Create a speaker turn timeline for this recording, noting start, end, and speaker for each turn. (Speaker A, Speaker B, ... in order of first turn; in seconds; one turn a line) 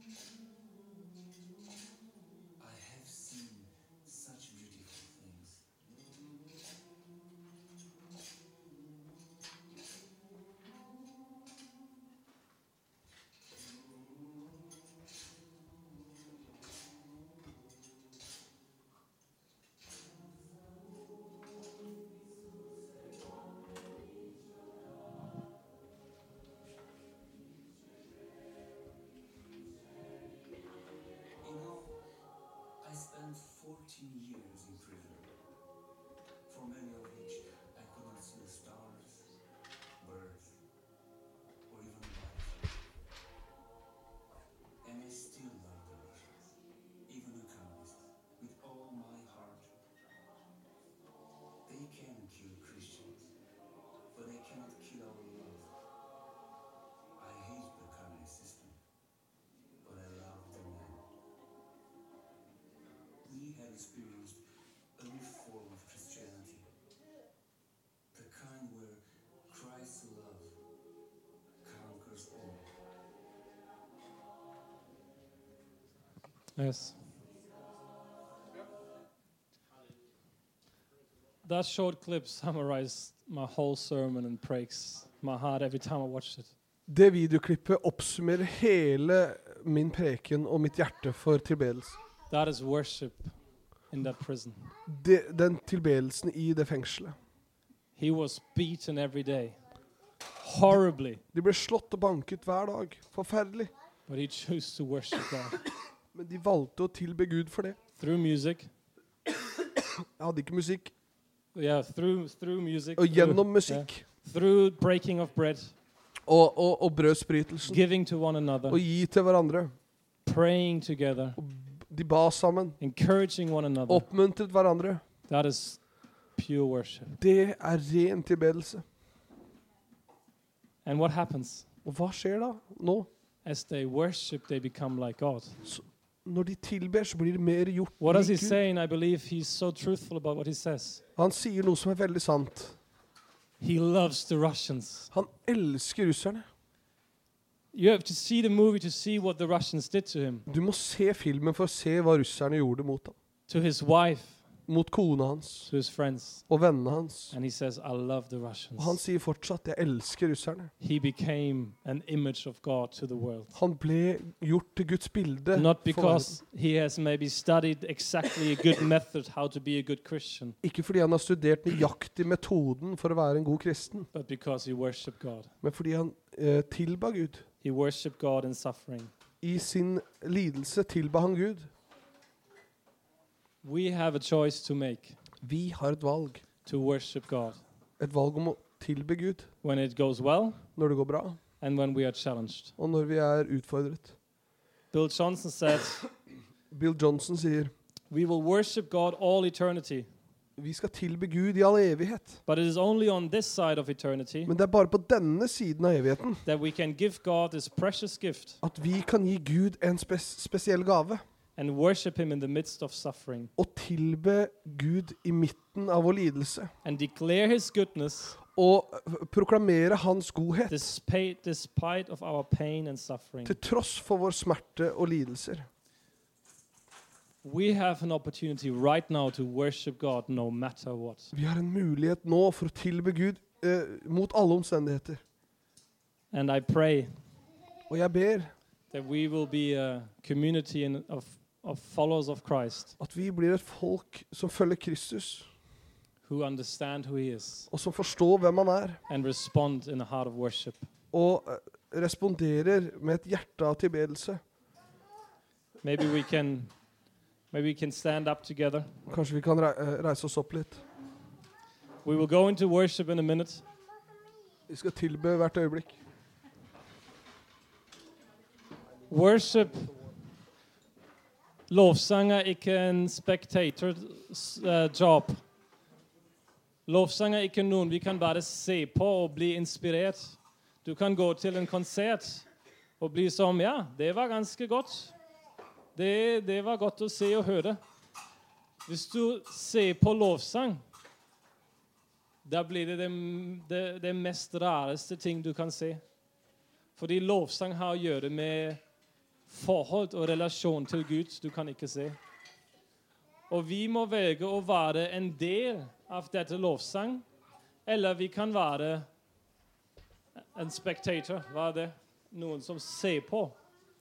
Speaker A: 2.6-5.6
Speaker A: 31.4-32.0
Speaker A: 32.8-35.3
Speaker A: 36.5-39.3
Speaker A: 40.0-40.6
Speaker A: 41.7-42.7
Speaker A: 44.8-46.5
Speaker A: 47.1-49.7
Speaker A: 51.6-53.3
Speaker A: 54.1-55.7
Speaker A: 57.2-58.8
Speaker A: 59.8-61.0
Speaker A: 63.2-64.4
Speaker A: 65.0-66.7
Speaker A: 68.1-70.6
Speaker A: 71.6-72.7
Speaker B: 76.5-77.0
Speaker B: 81.4-86.5
Speaker C: 86.9-92.0
Speaker B: 92.3-93.3
Speaker B: 93.9-94.7
Speaker C: 94.9-97.2
Speaker B: 98.0-99.6
Speaker B: 100.4-101.2
Speaker C: 101.3-103.7
Speaker B: 104.1-105.6
Speaker C: 106.1-107.8
Speaker B: 108.0-108.7
Speaker C: 109.8-110.9
Speaker B: 111.5-115.7
Speaker C: 113.0-114.0
Speaker C: 116.3-117.8
Speaker B: 117.7-118.8
Speaker C: 118.7-119.7
Speaker B: 120.2-121.4
Speaker C: 121.4-122.8
Speaker B: 122.8-124.1
Speaker C: 123.9-125.0
Speaker B: 125.3-125.8
Speaker B: 126.3-127.2
Speaker C: 127.2-128.8
Speaker B: 130.8-131.7
Speaker C: 131.8-133.1
Speaker B: 133.4-135.6
Speaker C: 135.6-138.6
Speaker B: 138.0-141.0
Speaker C: 141.2-142.8
Speaker B: 143.6-145.1
Speaker C: 145.1-146.4
Speaker B: 147.7-150.5
Speaker C: 150.5-153.1
Speaker B: 153.5-154.4
Speaker C: 154.7-155.7
Speaker B: 155.7-156.4
Speaker C: 156.5-157.3
Speaker B: 157.3-159.0
Speaker C: 158.8-160.7
Speaker B: 160.8-163.5
Speaker C: 163.5-166.4
Speaker B: 165.5-170.6
Speaker C: 170.6-174.1
Speaker B: 174.1-175.5
Speaker C: 175.6-177.4
Speaker B: 177.6-179.1
Speaker C: 179.4-181.7
Speaker B: 183.6-185.2
Speaker C: 185.4-186.4
Speaker B: 186.6-187.6
Speaker C: 188.0-189.5
Speaker B: 189.6-190.6
Speaker C: 190.8-191.4
Speaker B: 191.6-192.8
Speaker C: 192.8-194.1
Speaker B: 194.9-196.0
Speaker C: 196.7-197.7
Speaker B: 198.1-200.1
Speaker C: 200.6-202.4
Speaker B: 202.4-204.5
Speaker C: 204.4-206.4
Speaker B: 206.4-208.6
Speaker C: 208.6-211.2
Speaker B: 211.6-213.5
Speaker C: 213.6-216.7
Speaker B: 216.8-218.4
Speaker C: 218.5-220.8
Speaker B: 220.7-223.6
Speaker C: 223.4-225.7
Speaker B: 227.4-231.3
Speaker C: 231.3-235.2
Speaker B: 236.3-237.1
Speaker C: 237.9-238.5
Speaker B: 238.9-242.9
Speaker C: 243.0-245.5
Speaker B: 246.2-247.7
Speaker C: 247.7-249.0
Speaker B: 249.1-250.9
Speaker C: 251.1-254.4
Speaker B: 255.8-256.7
Speaker B: 257.5-258.9
Speaker C: 259.1-260.8
Speaker B: 262.0-263.6
Speaker C: 264.7-266.0
Speaker B: 269.1-269.9
Speaker B: 271.7-275.4
Speaker B: 276.9-282.5
Speaker B: 283.0-285.1
Speaker B: 285.9-287.8
Speaker B: 288.9-290.8
Speaker B: 292.4-296.0
Speaker B: 296.9-298.8
Speaker B: 299.4-302.2
Speaker B: 303.5-307.2
Speaker B: 307.8-309.1
Speaker B: 310.4-313.6